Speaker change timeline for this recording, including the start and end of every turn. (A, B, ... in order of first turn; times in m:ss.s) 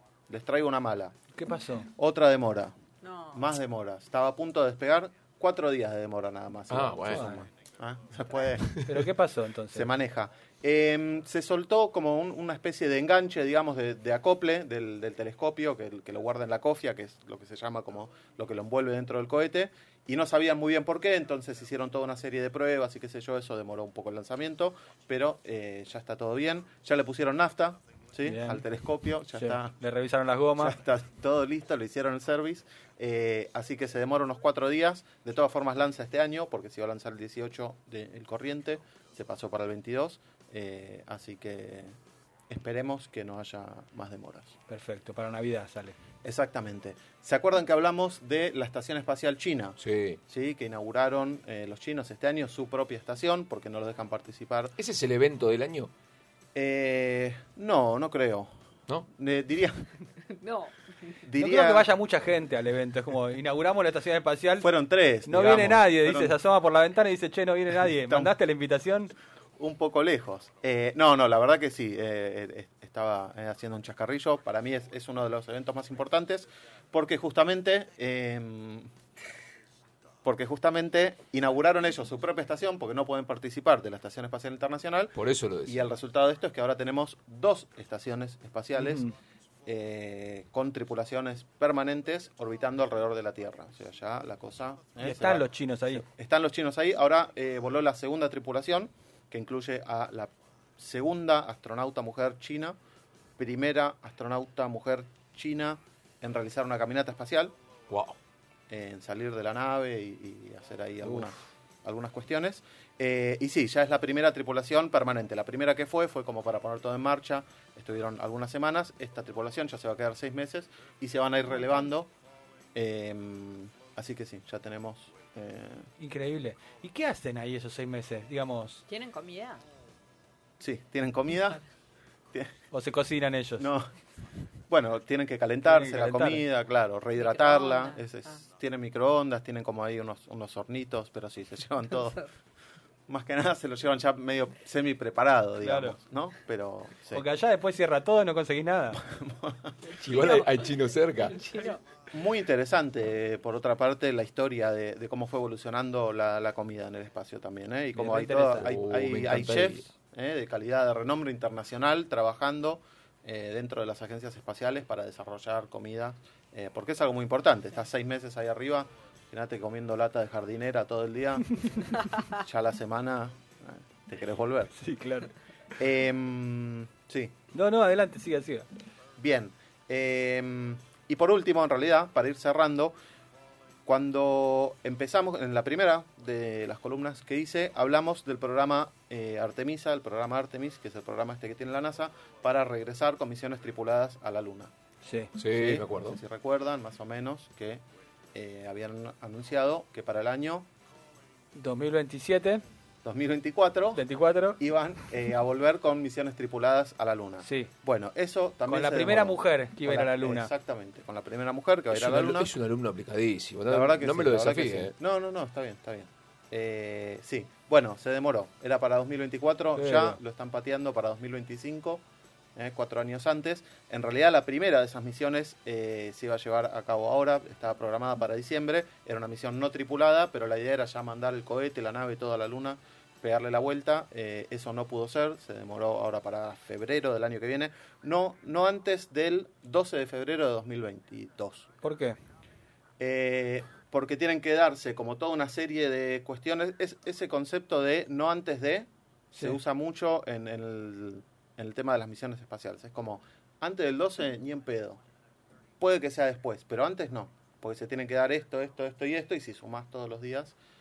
0:00.3-0:01.1 A
0:01.3-0:01.9 B
0:01.9-0:02.7 A
0:03.0-0:03.4 C
0:03.3-0:08.8 A
0:06.7-0:07.4 D
0:07.1-0:07.4 B
0:08.8-0:09.9 B
0:09.7-0:29.7 A
0:28.2-0:28.6 B
0:29.3-0:30.8 B
0:30.6-0:42.0 A
0:42.5-0:44.5 A
0:44.7-0:46.0 B
0:46.2-0:54.7 A
0:49.8-0:50.2 D
0:54.8-0:55.9 D
0:56.5-0:58.5 A
0:59.1-0:59.9 A
1:00.3-1:01.1 C
1:01.2-1:01.9 A
1:01.4-1:04.7 B
1:04.6-1:06.4 A
1:05.2-1:09.1 B
1:07.9-1:08.4 A
1:09.6-1:18.9 A
1:20.2-1:29.1 A
1:25.1-1:25.8 D
1:28.8-1:29.1 B
1:29.6-1:42.8 A
1:35.0-1:36.0 B
1:43.4-1:47.5 A
1:47.9-1:48.1 D
1:48.7-2:02.1 A
1:51.0-1:51.3 D
2:02.7-2:05.9 A
2:06.0-2:08.8 B
2:08.9-2:09.6 C
2:10.6-2:11.6 A
2:12.7-2:13.7 B
2:13.6-2:13.9 A
2:14.7-2:22.2 A
2:15.6-2:16.4 B
2:17.2-2:18.0 C
2:23.1-2:27.2 A
2:25.6-2:26.0 B
2:27.1-2:29.0 B
2:28.9-2:29.8 A
2:30.0-2:30.4 C
2:30.0-2:31.5 D
2:31.3-2:31.8 C
2:32.1-2:54.7 A
2:37.9-2:38.7 B
2:38.5-2:39.8 D
2:54.7-2:55.3 B
2:55.8-2:57.3 A
2:57.5-2:58.7 B
2:59.2-3:02.9 A
3:03.8-3:14.7 A
3:15.0-3:15.3 B
3:15.4-3:16.2 D
3:15.4-3:17.8 A
3:18.3-3:20.7 A
3:21.5-3:22.6 B
3:23.0-3:24.0 A
3:23.9-3:24.6 B
3:24.6-3:32.5 A
3:27.4-3:27.7 B
3:28.7-3:30.5 B
3:31.9-3:34.9 D
3:33.7-3:42.0 A
3:39.8-3:40.1 D
3:42.6-4:01.7 A
4:01.8-4:02.2 B
4:03.0-4:15.0 A
4:15.8-4:20.5 A